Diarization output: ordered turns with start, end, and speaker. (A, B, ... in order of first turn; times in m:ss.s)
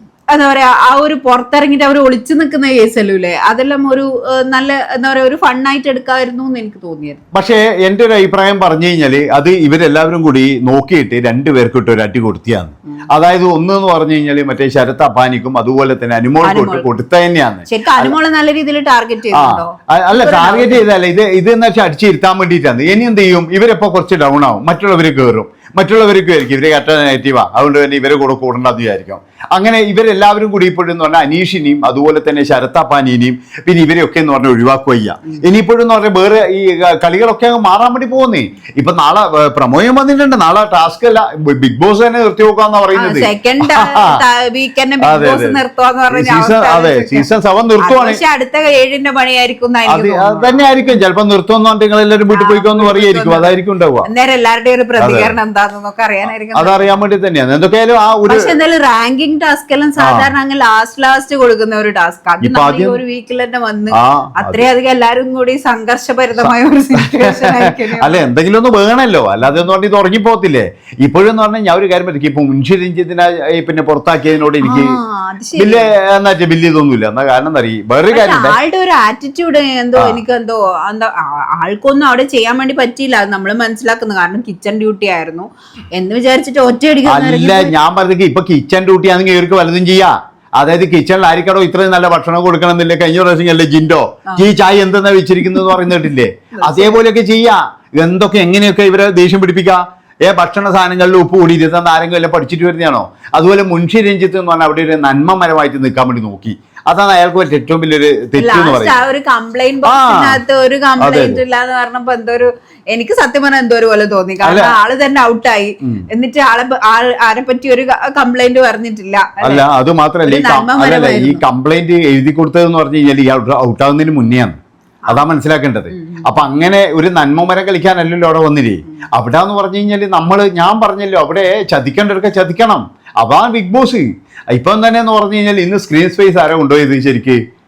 0:00.3-0:07.2 A
0:07.3-0:18.2 B
0:16.4-0:16.9 A
0:17.7-0:20.8 A
0:19.3-0:44.2 B
0:43.0-0:47.3 A
0:45.0-0:48.2 B
0:47.8-0:50.7 A
0:49.9-0:54.1 B
0:52.3-0:57.0 A
0:55.0-0:55.3 B
0:56.5-0:58.5 B
0:58.3-1:08.2 A
1:00.0-1:00.3 B
1:02.4-1:03.0 B
1:03.9-1:04.7 B
1:06.4-1:15.0 B
1:14.6-1:15.9 A
1:15.6-1:18.6 B
1:18.1-1:27.7 A
1:27.1-1:49.0 B
1:36.6-1:37.0 A
1:48.4-1:59.6 A
1:49.9-1:50.4 B
1:51.0-1:51.4 B
1:54.4-1:54.8 B
1:59.4-2:04.6 B
2:00.3-2:01.4 A
2:05.1-2:17.4 B
2:05.9-2:06.4 A